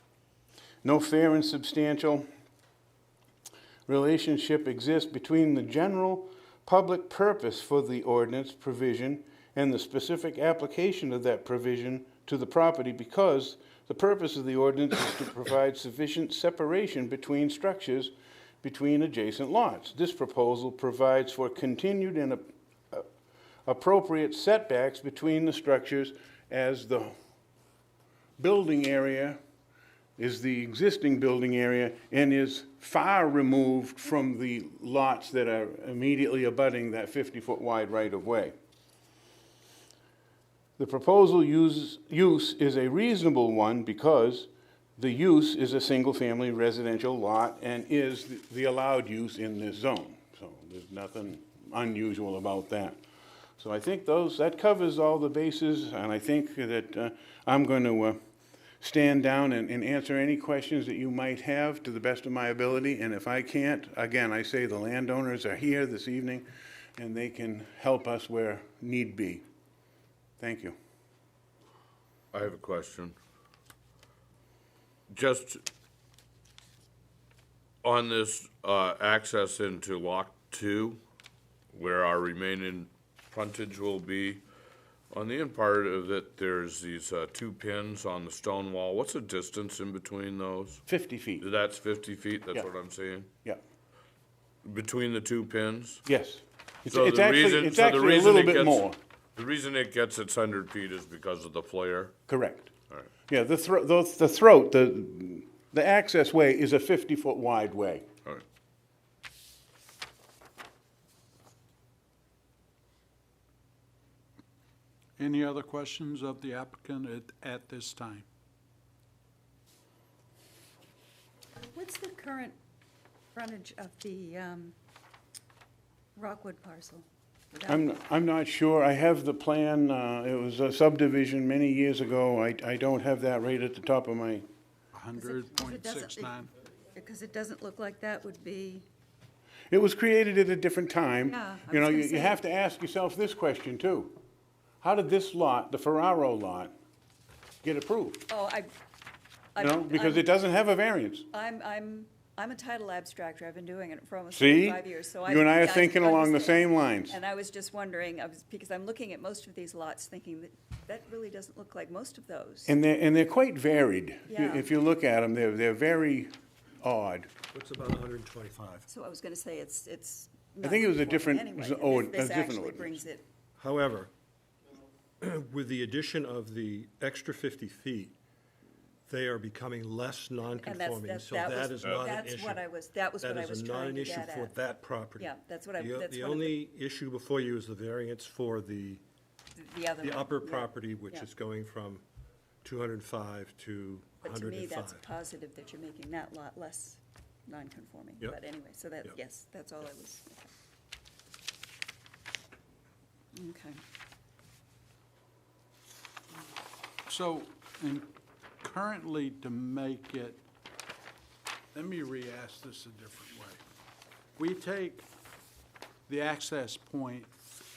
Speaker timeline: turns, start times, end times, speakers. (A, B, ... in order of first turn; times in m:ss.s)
0:00.8-0:02.3 A
0:03.9-0:18.1 A
0:18.6-0:23.0 A
0:23.6-0:27.1 A
0:28.4-0:29.4 A
0:30.2-0:38.5 A
0:40.8-0:53.0 A
0:53.6-0:58.2 A
0:58.8-1:09.4 A
1:10.4-1:10.8 A
1:12.3-1:13.1 B
1:15.1-1:15.6 B
1:17.8-1:21.0 B
1:21.7-1:24.4 B
1:25.1-1:30.8 B
1:30.9-1:31.4 A
1:31.4-1:33.3 B
1:34.6-1:36.0 B
1:36.0-1:39.0 A
1:36.9-1:42.1 B
1:42.3-1:42.7 A
1:43.3-1:48.0 A
1:55.2-1:58.2 C
2:01.6-2:02.6 D
2:03.3-2:04.7 D
2:06.2-2:07.9 D
2:07.7-2:14.4 A
2:14.9-2:16.5 C
2:15.2-2:16.4 D
2:16.9-2:18.8 D
2:19.7-2:24.1 A
2:21.3-2:22.4 D
2:24.8-2:26.7 A
2:27.6-2:28.2 A
2:28.3-2:28.7 D
2:29.5-2:30.3 D
2:29.6-2:31.3 A
2:31.3-2:42.7 D
2:34.3-2:37.2 A
2:42.6-2:47.3 A
2:44.3-2:44.7 D
2:47.5-2:48.9 E
2:48.9-2:53.2 D
2:50.6-2:53.0 A
2:53.6-2:54.1 E
2:55.2-2:58.1 E
2:59.1-3:02.6 E
3:00.6-3:04.6 D
3:01.8-3:02.1 B
3:03.2-3:09.0 E
3:05.2-3:06.6 D
3:09.6-3:11.3 D
3:10.0-3:12.0 E
3:12.6-3:15.0 E
3:14.2-3:20.5 D
3:23.3-3:23.8 D
3:27.0-3:28.0 C
3:28.6-3:30.4 C
3:31.7-3:33.6 C
3:34.4-3:35.0 C
3:36.1-3:37.3 C